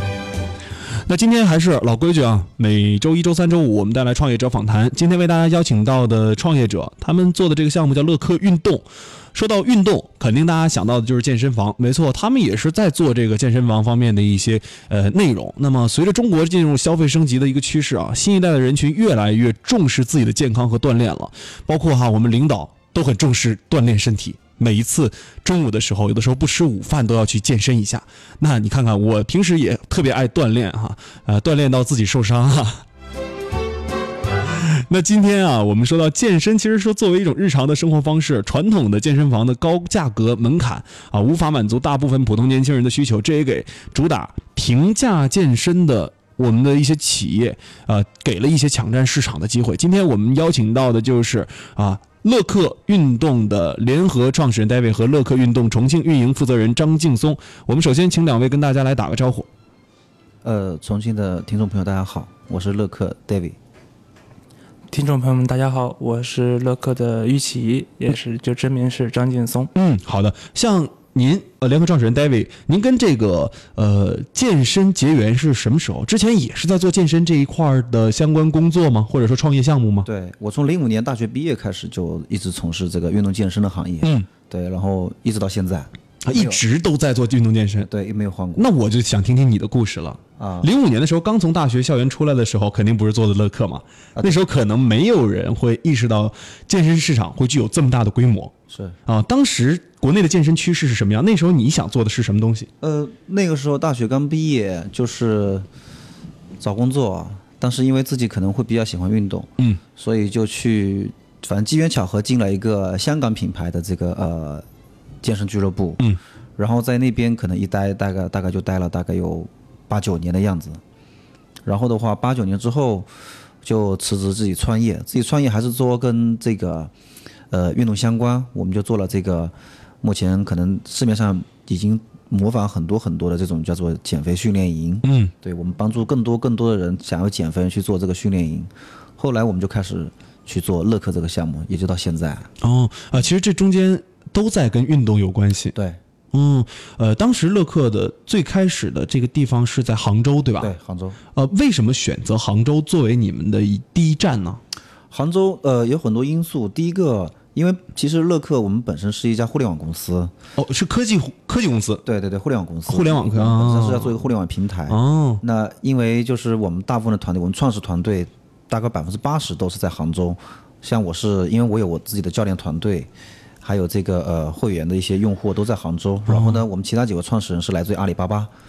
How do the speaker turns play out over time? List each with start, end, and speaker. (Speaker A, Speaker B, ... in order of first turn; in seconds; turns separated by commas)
Speaker A: 0.9-32.8, Speaker A: 34.5-59.5, Speaker B: 60.4-63.6, Speaker C: 64.9-69.7, Speaker A: 69.7-80.1, Speaker B: 80.0-86.6, Speaker A: 84.0-84.3, Speaker A: 86.2-87.9, Speaker B: 87.8-88.7, Speaker A: 88.5-98.5, Speaker B: 90.4-90.7, Speaker B: 98.7-99.0, Speaker A: 99.0-102.7, Speaker B: 102.8-105.7, Speaker B: 106.6-114.6, Speaker B: 115.2-120.8, Speaker B: 121.7-123.1, Speaker B: 123.6-126.9, Speaker B: 127.5-142.5, Speaker A: 135.0-135.3, Speaker A: 142.6-145.7, Speaker B: 145.7-146.0, Speaker A: 146.3-150.7, Speaker B: 150.6-151.2, Speaker A: 151.3-154.6, Speaker B: 155.1-160.3, Speaker A: 160.6-162.0, Speaker B: 162.0-173.1, Speaker A: 162.9-164.2, Speaker A: 164.9-165.4, Speaker B: 173.6-178.5, Speaker A: 176.3-176.6